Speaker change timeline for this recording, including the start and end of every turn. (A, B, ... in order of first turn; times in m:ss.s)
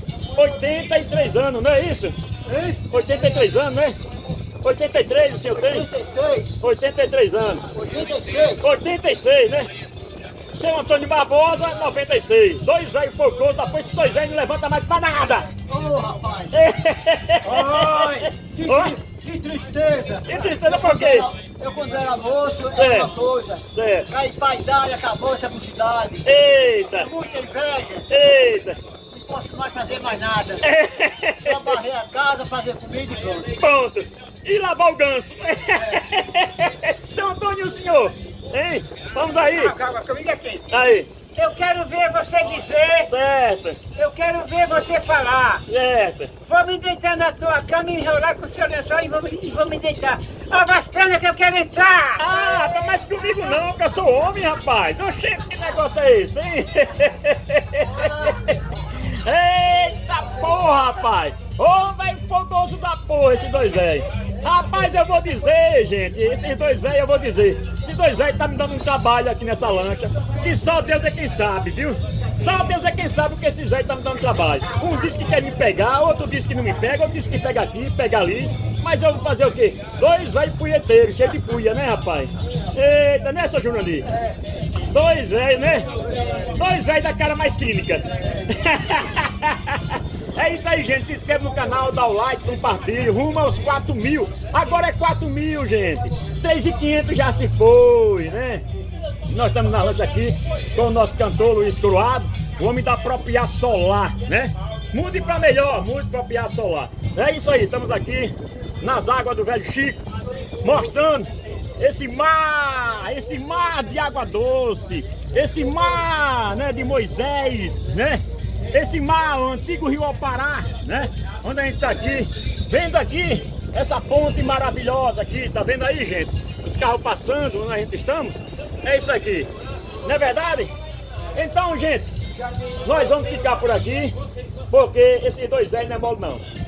0:00.4-0:02.2 A
0:02.5-0:02.9 B
0:02.9-0:04.0 A
0:04.6-0:05.9 A
0:05.5-0:06.6 B
0:06.6-0:07.6 A
0:07.7-0:08.7 B
0:08.6-0:09.7 A
0:10.5-0:15.5 A
0:15.7-0:16.5 B
0:16.5-0:19.0 A
0:17.4-0:28.1 B
0:20.3-0:21.3 A
0:22.7-0:23.1 A
0:23.7-0:24.1 A
0:26.2-0:27.1 A
0:28.1-0:28.8 A
0:29.1-0:30.7 B
0:30.6-0:31.8 A
0:31.4-0:33.5 B
0:33.6-0:39.7 A
0:35.8-0:36.0 B
0:39.4-0:40.7 C
0:40.7-0:41.1 A
0:41.3-0:43.1 C
0:43.1-0:43.8 A
0:44.0-0:45.7 C
0:45.7-0:46.3 A
0:46.5-0:52.4 C
0:52.2-1:24.1 A
1:24.9-1:25.9 A
1:26.4-1:38.6 A
1:39.3-1:50.0 A
1:50.6-2:09.5 A
2:10.0-2:10.7 A
2:11.4-2:12.1 A
2:12.8-2:14.1 A
2:14.7-2:16.4 A